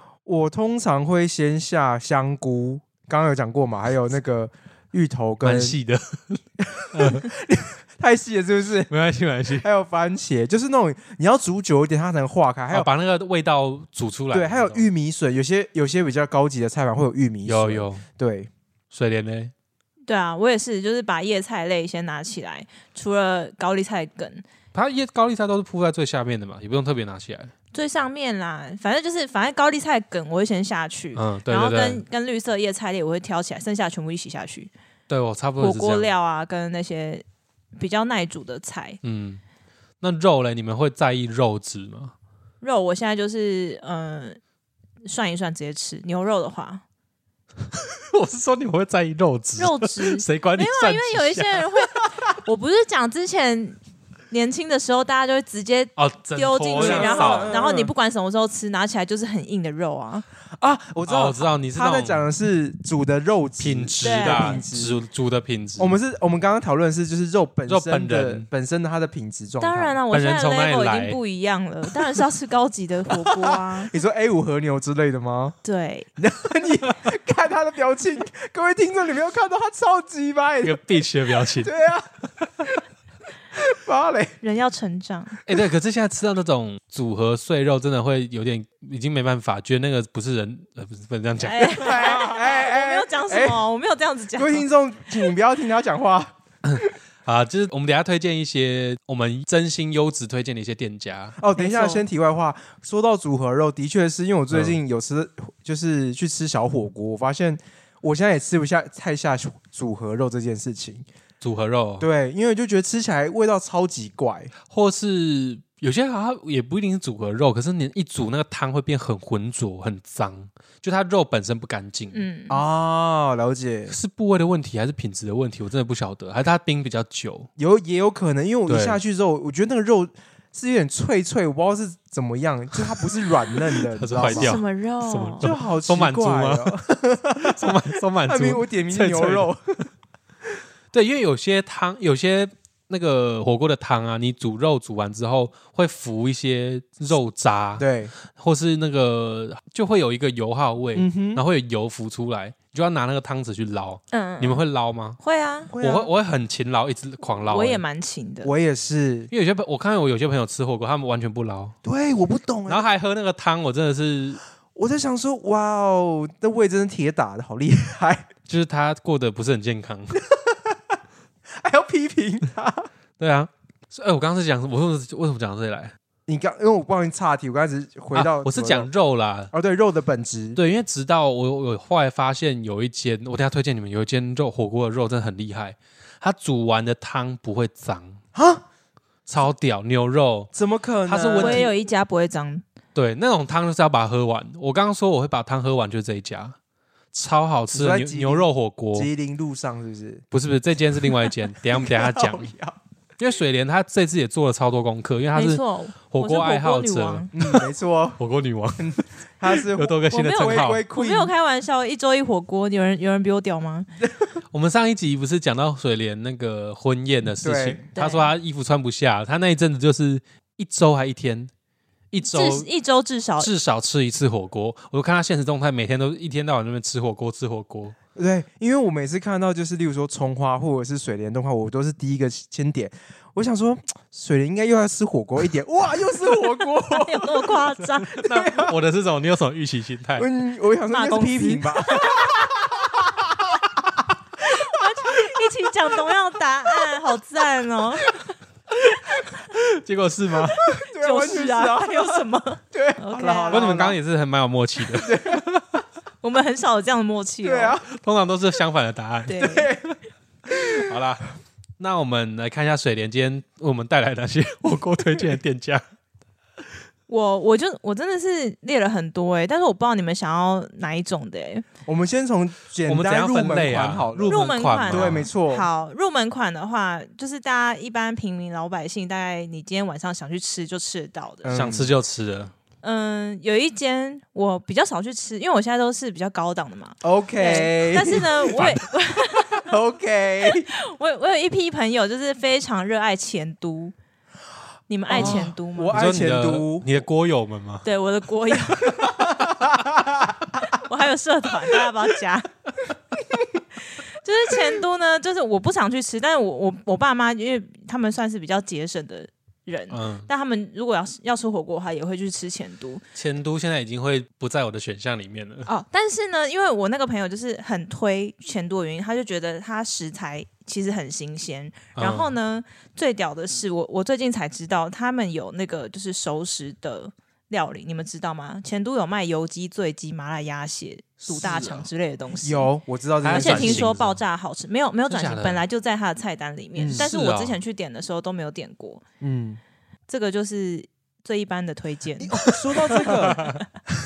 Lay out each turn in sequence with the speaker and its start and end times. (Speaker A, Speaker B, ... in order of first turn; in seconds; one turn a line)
Speaker A: 0.2-5.8
Speaker B: 5.4-7.3
Speaker A: 6.8-8.9
Speaker B: 8.9-9.7
Speaker A: 9.5-12.9
Speaker B: 12.7-14.9
Speaker A: 14.3-18.5
Speaker B: 17.4-18.0
Speaker B: 18.9-19.5
Speaker C: 20.1-24.4
Speaker B: 24.7-27.5
Speaker C: 27.7-34.7
Speaker B: 31.1-32.0
Speaker B: 35.1-36.1
Speaker C: 35.6-37.2
Speaker C: 37.8-39.0
Speaker B: 39.0-39.4
Speaker B: 40.0-42.1
Speaker C: 42.6-44.4
Speaker C: 45.0-46.8
Speaker B: 47.7-52.0
Speaker C: 49.6-53.8
Speaker C: 54.3-60.2
Speaker B: 56.0-57.6
Speaker A: 56.7-57.9
Speaker A: 60.6-65.0
Speaker B: 61.0-62.2
Speaker B: 63.6-66.0
Speaker C: 64.0-64.6
Speaker A: 65.8-70.0
Speaker B: 67.7-68.5
Speaker C: 69.6-73.9
Speaker B: 70.1-71.2
Speaker A: 73.8-75.5
Speaker C: 75.6-76.1
Speaker A: 76.2-80.8
Speaker B: 80.6-81.7
Speaker A: 81.4-82.7
Speaker A: 83.5-84.3
Speaker C: 84.4-85.4
Speaker B: 85.5-92.0
Speaker C: 91.4-94.7
Speaker A: 91.7-93.6
Speaker A: 94.3-96.9
Speaker B: 96.6-101.4
Speaker A: 101.4-111.0
Speaker C: 101.5-102.0
Speaker B: 104.5-104.8
Speaker B: 111.4-112.1
Speaker A: 112.0-114.5
Speaker B: 114.7-122.2
Speaker C: 122.1-122.6
Speaker A: 122.5-123.9
Speaker B: 123.9-127.5
Speaker A: 127.6-134.6
Speaker B: 128.7-129.0
Speaker B: 133.6-136.8
Speaker C: 134.2-135.5
Speaker A: 135.4-139.8
Speaker B: 137.4-139.5
Speaker B: 140.9-155.2
Speaker A: 147.8-148.1
Speaker A: 150.9-151.4
Speaker C: 154.1-154.6
Speaker C: 155.2-155.7
Speaker A: 155.7-156.1
Speaker B: 155.8-157.8
Speaker C: 157.4-158.5
Speaker A: 158.4-159.3
Speaker B: 159.3-161.7
Speaker A: 161.8-162.8
Speaker B: 162.7-164.4
Speaker A: 164.7-168.3
Speaker B: 168.5-170.2
Speaker A: 170.2-170.9
Speaker A: 171.6-172.9
Speaker B: 173.2-175.9
Speaker A: 176.3-178.9
Speaker B: 178.1-179.5
Speaker A: 179.5-180.6
Speaker B: 180.6-188.2
Speaker A: 188.3-188.6
Speaker B: 189.2-190.5
Speaker A: 190.5-191.7
Speaker B: 191.1-191.7
Speaker C: 191.4-192.6
Speaker B: 192.9-196.5
Speaker B: 197.1-199.1
Speaker A: 197.7-200.2
Speaker B: 200.3-202.5
Speaker A: 201.7-202.8
Speaker B: 203.2-207.7
Speaker C: 205.3-207.3
Speaker A: 207.3-208.2
Speaker B: 208.2-210.8
Speaker A: 208.8-211.3
Speaker C: 210.1-213.9
Speaker B: 214.5-221.5
Speaker A: 217.4-217.8
Speaker C: 217.9-218.3
Speaker B: 222.1-222.7
Speaker C: 222.2-223.5
Speaker B: 223.4-227.9
Speaker A: 228.2-237.5
Speaker C: 236.9-238.3
Speaker B: 238.1-240.3
Speaker A: 238.2-238.7
Speaker A: 240.2-244.0
Speaker C: 240.9-242.5
Speaker C: 244.4-248.2
Speaker B: 249.4-250.6
Speaker A: 250.5-254.0
Speaker C: 250.8-253.7
Speaker B: 253.5-255.6
Speaker A: 254.9-255.4
Speaker C: 256.2-257.8
Speaker A: 257.4-257.9
Speaker B: 257.9-259.5
Speaker C: 259.3-259.7
Speaker A: 259.4-259.9
Speaker A: 260.5-260.9
Speaker B: 260.7-265.8
Speaker C: 267.1-271.6
Speaker A: 271.9-275.7
Speaker B: 272.9-275.3
Speaker C: 274.3-281.6
Speaker A: 281.4-281.9
Speaker B: 281.5-282.5
Speaker C: 282.8-289.7
Speaker A: 287.0-288.7
Speaker B: 288.5-288.8
Speaker A: 289.6-290.7
Speaker C: 290.5-293.9
Speaker C: 294.9-296.0
Speaker A: 295.1-296.9
Speaker B: 295.1-297.9
Speaker C: 297.8-299.4
Speaker A: 299.1-300.4
Speaker C: 300.6-302.5
Speaker C: 303.8-313.0
Speaker B: 309.9-310.3
Speaker B: 313.1-315.7
Speaker C: 315.6-332.7
Speaker B: 321.9-322.4
Speaker B: 331.2-331.9
Speaker A: 332.4-334.0
Speaker B: 333.2-334.2
Speaker C: 333.3-339.0
Speaker B: 335.1-335.6
Speaker A: 336.8-337.1
Speaker B: 336.9-337.6
Speaker A: 339.2-339.6
Speaker C: 340.1-343.6
Speaker A: 342.2-343.5
Speaker B: 342.5-343.5